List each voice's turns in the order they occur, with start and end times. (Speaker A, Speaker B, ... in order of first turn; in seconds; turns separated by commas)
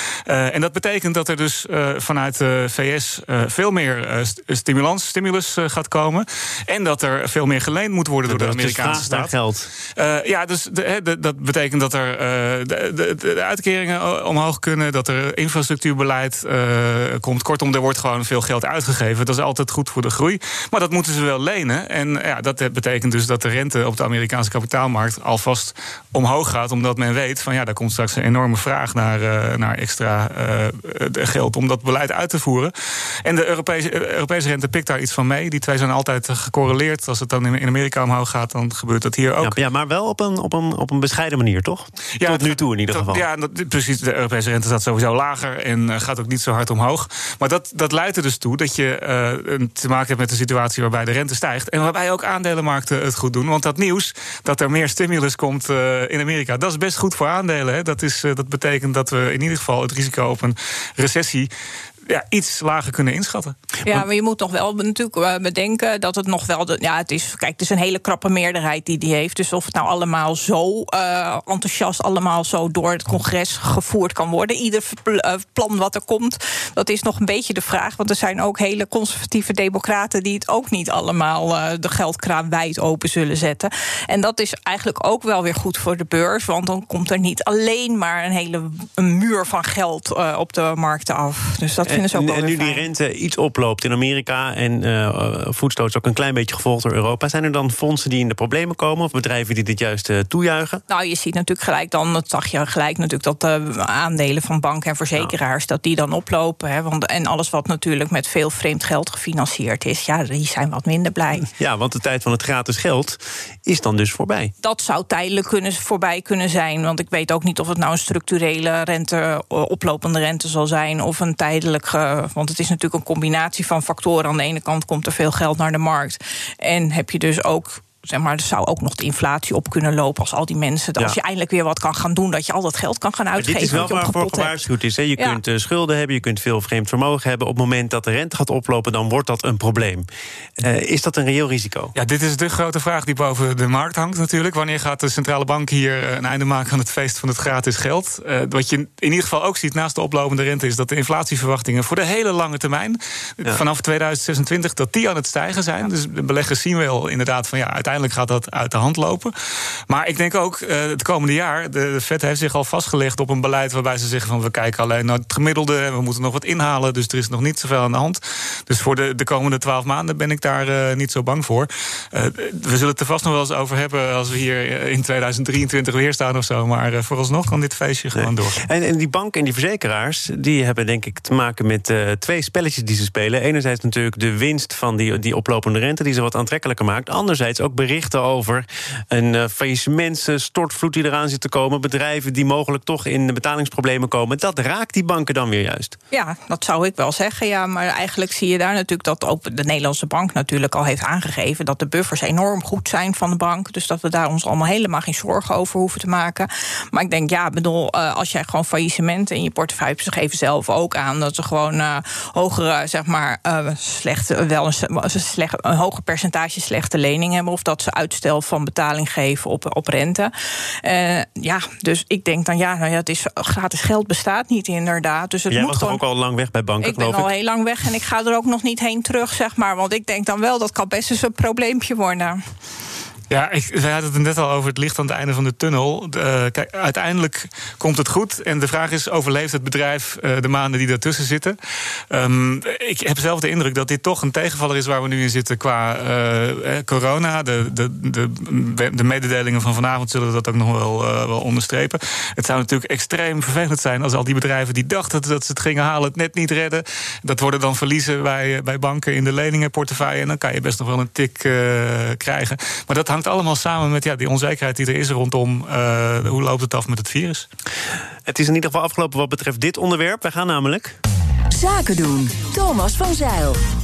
Speaker A: 0.3-9.3, Speaker B: 8.3-9.7, Speaker A: 10.0-32.7, Speaker A: 33.2-39.5, Speaker B: 39.4-43.2, Speaker A: 42.2-61.5, Speaker A: 62.1-64.0, Speaker C: 63.9-92.8, Speaker B: 91.9-100.8, Speaker C: 100.9-111.5, Speaker B: 111.4-114.5, Speaker C: 114.6-134.6, Speaker B: 133.4-141.9, Speaker A: 141.9-159.3, Speaker A: 159.9-178.6, Speaker B: 178.2-196.0, Speaker C: 196.1-220.3, Speaker C: 220.8-226.0, Speaker B: 225.5-227.3, Speaker C: 226.8-232.4, Speaker A: 233.3-241.6, Speaker A: 242.1-267.5, Speaker B: 268.3-271.0, Speaker D: 271.5-273.6